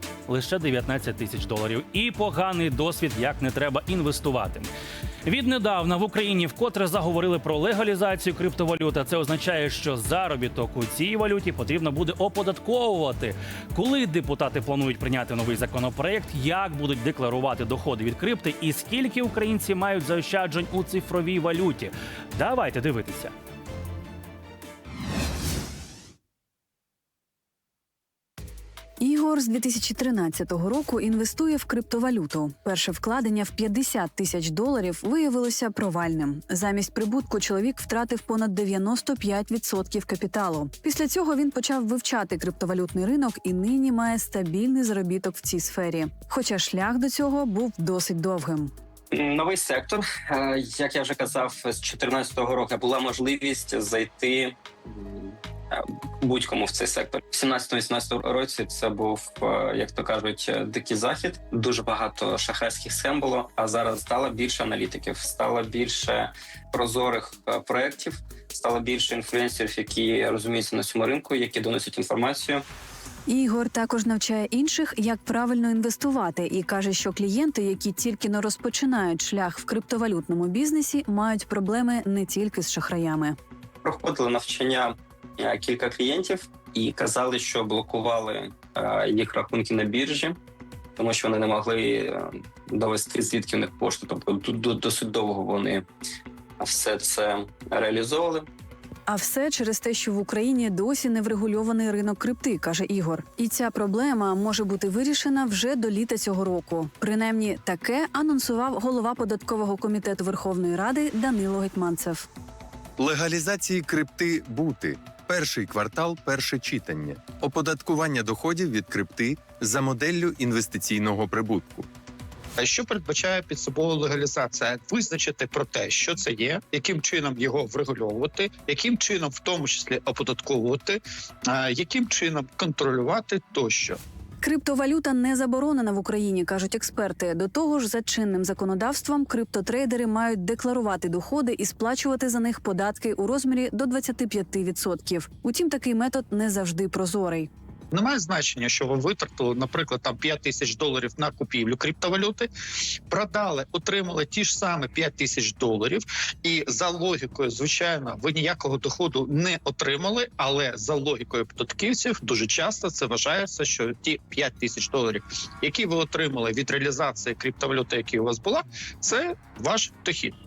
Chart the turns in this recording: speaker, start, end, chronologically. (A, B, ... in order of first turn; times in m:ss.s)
0:00.3-0:04.7 A
0:05.2-0:23.3 A
0:29.0-0:48.7 B
0:49.1-1:12.6 C
1:13.3-1:23.4 B
1:23.8-1:30.4 C
1:31.0-1:35.8 C
1:36.6-1:38.5 C
1:39.1-1:52.3 B
1:53.0-2:01.9 D
2:02.6-2:14.0 E
2:14.4-2:27.5 B
2:27.9-2:32.5 E
2:33.1-2:50.4 E